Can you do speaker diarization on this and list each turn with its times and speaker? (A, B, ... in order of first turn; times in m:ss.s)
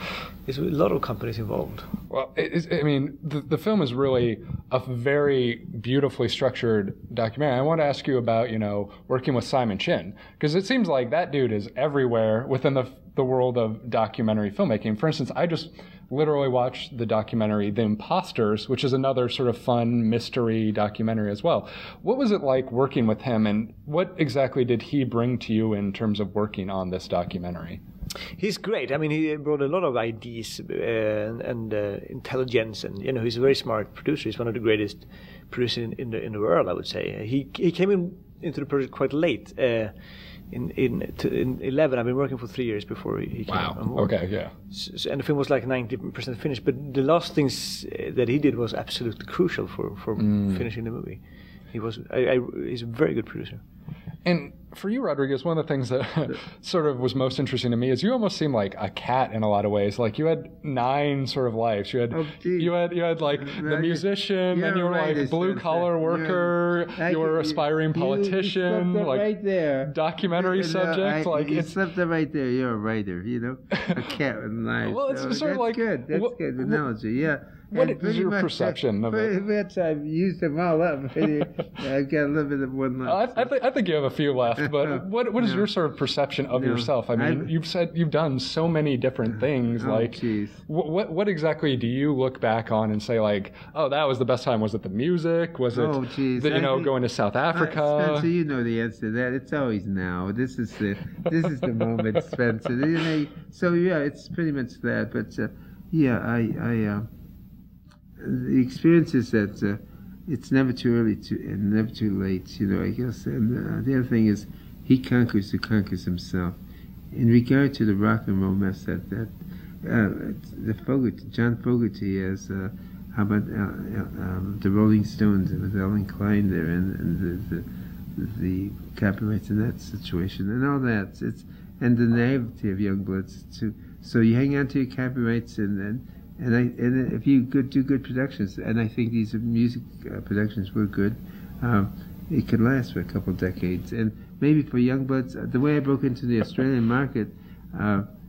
0:00.5-0:01.9 A
0:02.1-0:27.8 B
0:28.4-0:39.9 A
0:40.5-0:51.2 A
0:43.5-0:44.5 B
0:50.2-0:50.6 B
0:51.7-0:53.6 A
0:54.2-1:09.3 B
1:02.1-1:23.5 C
1:09.9-1:11.7 B
1:14.8-1:16.8 B
1:17.7-1:19.3 B
1:23.1-1:38.3 B
1:24.6-1:25.7 C
1:26.5-1:27.5 C
1:29.3-1:30.6 C
1:35.7-1:36.9 C
1:37.5-1:47.1 C
1:48.2-1:56.6 C
1:57.1-2:28.1 C